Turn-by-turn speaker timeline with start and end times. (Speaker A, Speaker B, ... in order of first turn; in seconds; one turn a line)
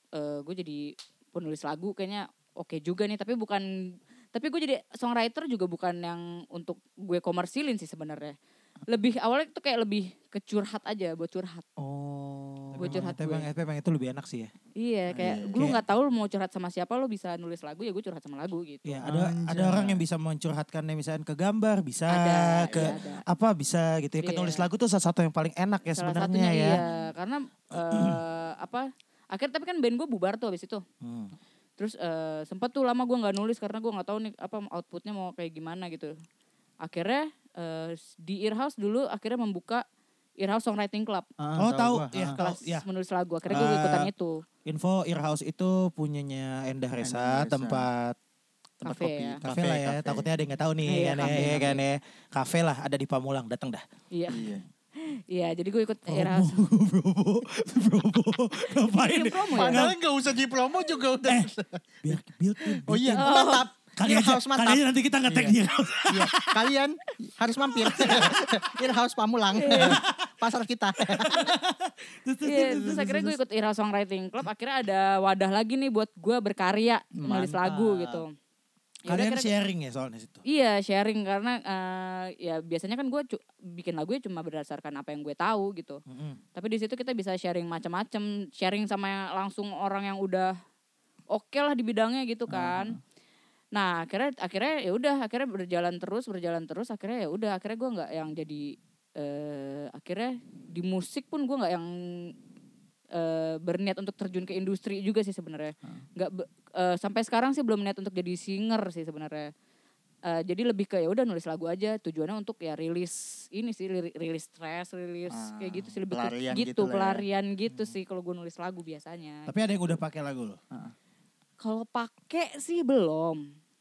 Speaker A: 0.1-3.7
Speaker A: 4.3-8.4
Speaker A: 8.9-11.7
Speaker B: 11.8-13.0
Speaker A: 12.8-13.5
Speaker C: 12.8-14.5
Speaker A: 14.8-19.0
Speaker B: 15.2-15.6
Speaker C: 15.4-15.8
Speaker C: 18.9-26.8
Speaker B: 19.0-20.0
Speaker A: 22.1-23.2
Speaker B: 22.7-23.0
Speaker A: 24.2-24.7
Speaker A: 26.0-30.8
Speaker B: 26.8-27.1
Speaker C: 27.8-28.2
Speaker C: 31.0-31.3
Speaker A: 31.8-36.1
Speaker A: 36.8-39.8
Speaker A: 40.4-41.3
Speaker B: 41.4-42.4
Speaker C: 41.6-42.9
Speaker A: 42.4-44.4
Speaker C: 43.5-44.1
Speaker C: 44.6-48.2
Speaker B: 47.0-47.9
Speaker A: 48.8-49.4
Speaker B: 48.9-50.3
Speaker C: 49.4-53.8
Speaker A: 50.9-51.8
Speaker B: 51.3-51.7
Speaker A: 54.1-54.4
Speaker B: 54.3-54.6
Speaker A: 55.0-56.5
Speaker C: 56.1-60.0
Speaker A: 58.9-59.8
Speaker B: 59.5-62.1
Speaker C: 61.2-61.5
Speaker C: 62.0-63.3
Speaker B: 62.8-71.5
Speaker A: 63.1-63.7
Speaker C: 64.0-66.6
Speaker C: 67.8-68.6
Speaker A: 67.8-68.2
Speaker A: 69.6-70.0
Speaker C: 69.7-70.3
Speaker C: 71.0-73.4
Speaker A: 72.4-78.3
Speaker B: 77.2-78.2
Speaker A: 79.0-79.5
Speaker C: 79.1-80.4
Speaker A: 80.5-86.0
Speaker C: 86.1-86.4
Speaker A: 86.5-90.5
Speaker A: 91.3-93.0
Speaker B: 92.5-93.0
Speaker A: 93.7-102.3
Speaker A: 103.1-109.5
Speaker A: 110.3-119.5
Speaker B: 115.3-117.2
Speaker C: 117.7-118.0
Speaker C: 119.5-120.6
Speaker A: 121.6-123.5